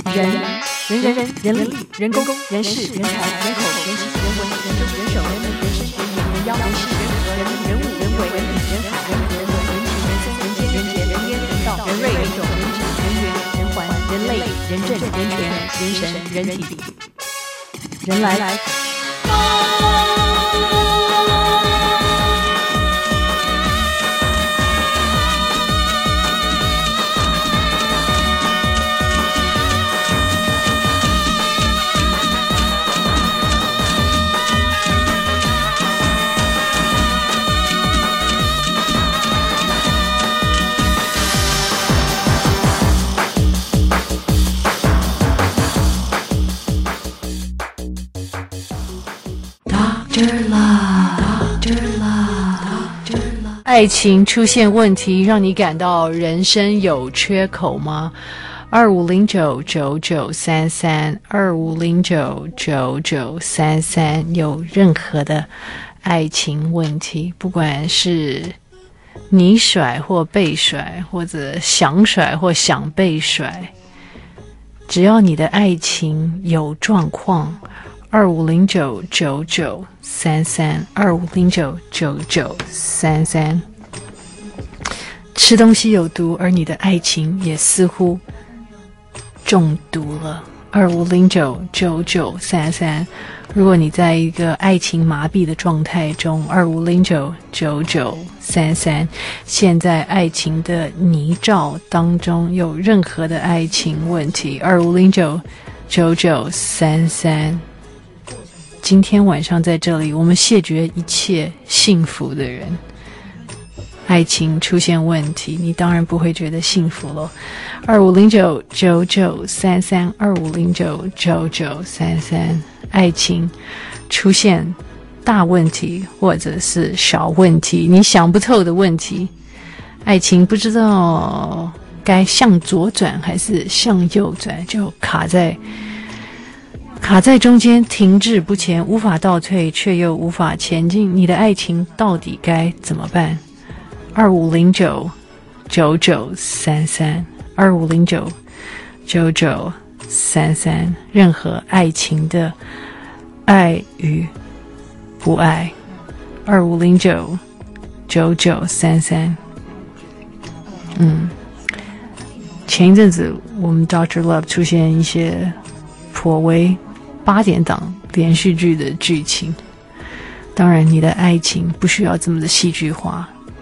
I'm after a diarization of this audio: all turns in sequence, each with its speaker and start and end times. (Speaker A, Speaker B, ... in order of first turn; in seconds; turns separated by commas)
Speaker A: 0.1-16.8, Speaker A: 18.0-18.7, Speaker A: 50.3-53.0, Speaker A: 53.6-58.1, Speaker A: 58.7-65.5, Speaker A: 66.0-68.6, Speaker A: 69.3-73.7, Speaker A: 74.9-83.7, Speaker A: 85.3-88.2, Speaker A: 89.5-107.6, Speaker A: 108.8-112.8, Speaker A: 114.1-123.5, Speaker A: 124.1-129.3, Speaker A: 130.1-135.6, Speaker A: 137.0-143.4, Speaker A: 144.1-145.1, Speaker A: 145.7-148.4, Speaker A: 149.1-152.6, Speaker A: 153.5-154.3, Speaker A: 155.2-155.8, Speaker A: 156.5-157.4, Speaker A: 158.1-159.4, Speaker A: 160.8-161.4, Speaker A: 162.7-165.6, Speaker A: 166.1-169.6, Speaker A: 170.6-173.3